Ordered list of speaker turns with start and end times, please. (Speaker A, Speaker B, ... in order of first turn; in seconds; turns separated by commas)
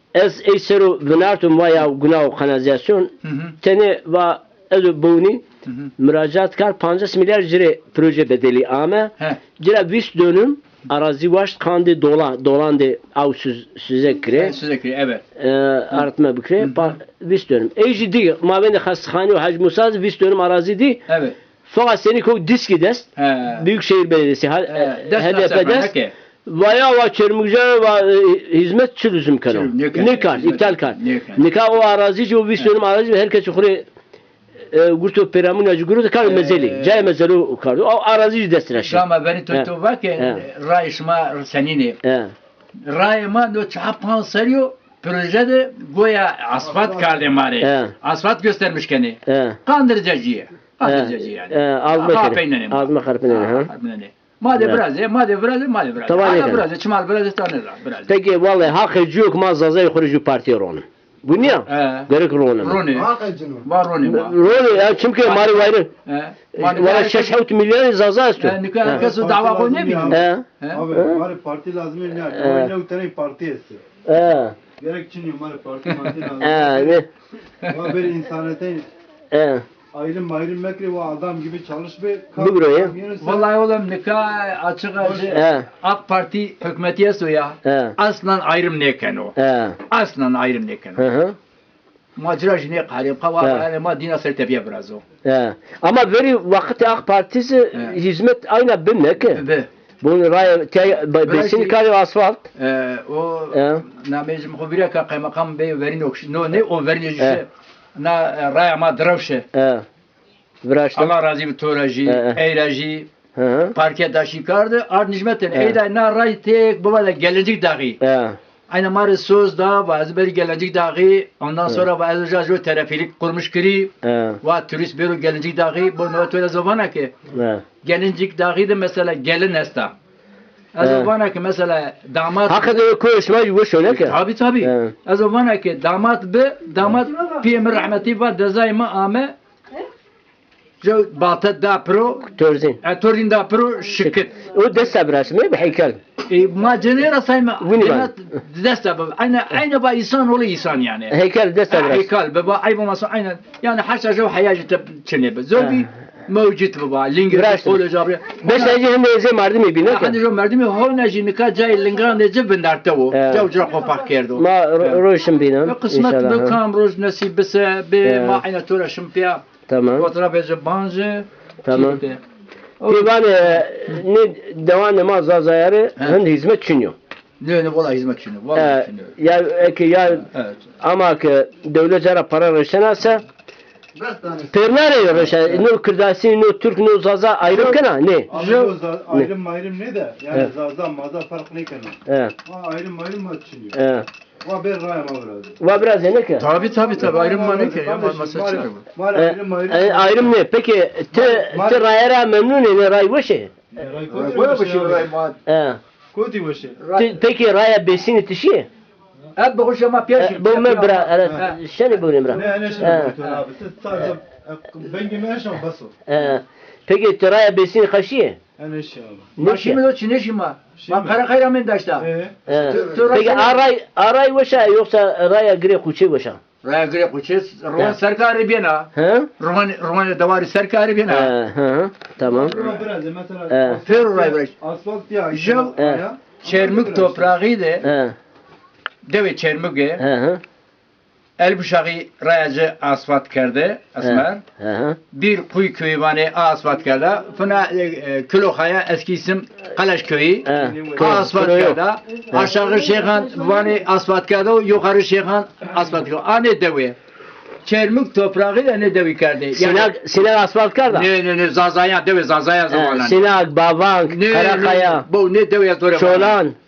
Speaker A: 0.1-3.1, Speaker B: 3.2-3.6, Speaker A: 3.6-5.4, Speaker A: 6.0-14.6, Speaker B: 14.3-15.2, Speaker A: 15.4-21.0, Speaker B: 16.6-16.9, Speaker B: 21.1-21.4, Speaker A: 21.7-25.9, Speaker B: 23.2-23.7, Speaker B: 24.7-26.1, Speaker A: 26.5-33.8, Speaker B: 29.5-31.4, Speaker A: 34.7-40.4, Speaker B: 36.2-37.0, Speaker B: 38.8-42.0, Speaker A: 42.0-42.3, Speaker B: 42.9-58.1, Speaker C: 46.6-47.3, Speaker A: 47.6-47.9, Speaker A: 49.3-49.6, Speaker A: 50.8-53.7, Speaker A: 54.6-54.8, Speaker A: 56.0-56.7, Speaker A: 58.1-62.8, Speaker B: 61.7-63.1, Speaker C: 62.9-63.7, Speaker B: 63.6-67.4, Speaker A: 64.0-65.9, Speaker A: 66.5-69.0, Speaker B: 68.4-70.9, Speaker C: 68.9-73.8, Speaker A: 70.1-71.2, Speaker A: 72.3-72.7, Speaker A: 74.1-74.5, Speaker C: 74.8-77.0, Speaker B: 75.9-76.3, Speaker A: 76.4-77.1, Speaker B: 77.7-78.0, Speaker C: 77.7-78.9, Speaker A: 79.3-79.7, Speaker C: 79.9-83.5, Speaker A: 82.4-82.9, Speaker B: 83.2-89.3, Speaker C: 85.0-85.4, Speaker A: 85.3-85.7, Speaker A: 87.7-88.0, Speaker A: 89.4-89.8, Speaker B: 89.9-91.0, Speaker A: 91.0-91.4, Speaker B: 92.2-95.0, Speaker A: 93.4-93.7, Speaker A: 95.2-99.4, Speaker B: 97.7-98.0, Speaker B: 99.3-99.7, Speaker A: 100.0-102.5, Speaker B: 101.2-101.8, Speaker B: 102.6-109.5, Speaker A: 103.5-103.8, Speaker A: 109.5-109.8, Speaker A: 110.6-111.1, Speaker B: 111.0-113.1, Speaker A: 112.1-112.4, Speaker A: 113.4-113.7, Speaker B: 113.8-118.0, Speaker A: 118.0-118.4, Speaker B: 118.7-127.2, Speaker A: 124.0-124.4, Speaker A: 127.3-127.6, Speaker B: 127.8-129.9, Speaker B: 130.8-132.8, Speaker A: 130.8-131.1, Speaker A: 132.5-134.9, Speaker B: 133.9-139.3, Speaker B: 140.8-142.3, Speaker A: 142.3-142.8, Speaker B: 142.8-144.4, Speaker A: 144.0-146.0, Speaker B: 146.3-151.2, Speaker A: 147.6-148.1, Speaker A: 151.1-152.1, Speaker B: 151.7-158.8, Speaker A: 157.3-157.8, Speaker A: 158.4-160.2, Speaker B: 159.9-165.0, Speaker A: 163.1-163.5, Speaker A: 164.4-166.6, Speaker B: 165.6-169.4, Speaker A: 168.0-168.4, Speaker A: 169.7-170.1, Speaker B: 170.0-172.2, Speaker A: 171.6-172.0, Speaker B: 172.8-173.3, Speaker A: 172.9-176.9, Speaker B: 177.4-179.2, Speaker A: 178.6-180.2, Speaker B: 180.3-180.6, Speaker A: 180.8-183.2, Speaker C: 184.0-185.4, Speaker A: 184.5-188.3, Speaker C: 188.3-193.8, Speaker B: 188.3-188.8, Speaker A: 192.1-192.3, Speaker A: 193.7-194.1, Speaker C: 194.4-195.6, Speaker A: 195.6-196.5, Speaker B: 196.4-198.8, Speaker C: 196.5-200.3, Speaker A: 199.2-203.5, Speaker C: 201.1-201.9, Speaker C: 203.7-205.1, Speaker B: 204.1-205.4, Speaker A: 205.5-205.8, Speaker C: 206.1-206.8, Speaker B: 206.8-207.2, Speaker A: 207.0-208.7, Speaker B: 209.4-211.6, Speaker A: 210.2-213.2, Speaker C: 212.3-215.9, Speaker B: 212.4-213.4, Speaker A: 216.1-218.4, Speaker C: 218.6-219.3, Speaker A: 219.4-219.8, Speaker B: 219.4-223.6, Speaker C: 220.8-221.2, Speaker C: 222.0-223.4, Speaker A: 222.5-226.4, Speaker B: 226.6-231.3, Speaker A: 229.0-229.3, Speaker A: 231.1-232.6, Speaker C: 232.3-237.3, Speaker B: 232.4-232.9, Speaker A: 233.5-233.8, Speaker B: 233.8-234.5, Speaker B: 235.3-235.8, Speaker A: 235.8-236.0, Speaker B: 236.4-237.8, Speaker A: 237.8-238.2, Speaker B: 239.1-240.0, Speaker A: 240.0-240.4, Speaker B: 241.4-244.4, Speaker A: 244.0-245.0, Speaker B: 245.1-257.0, Speaker A: 250.5-251.8, Speaker C: 250.5-251.2, Speaker B: 257.6-259.9, Speaker A: 259.6-261.1, Speaker B: 260.9-263.3, Speaker A: 262.7-265.1, Speaker B: 264.1-266.4, Speaker A: 265.9-266.6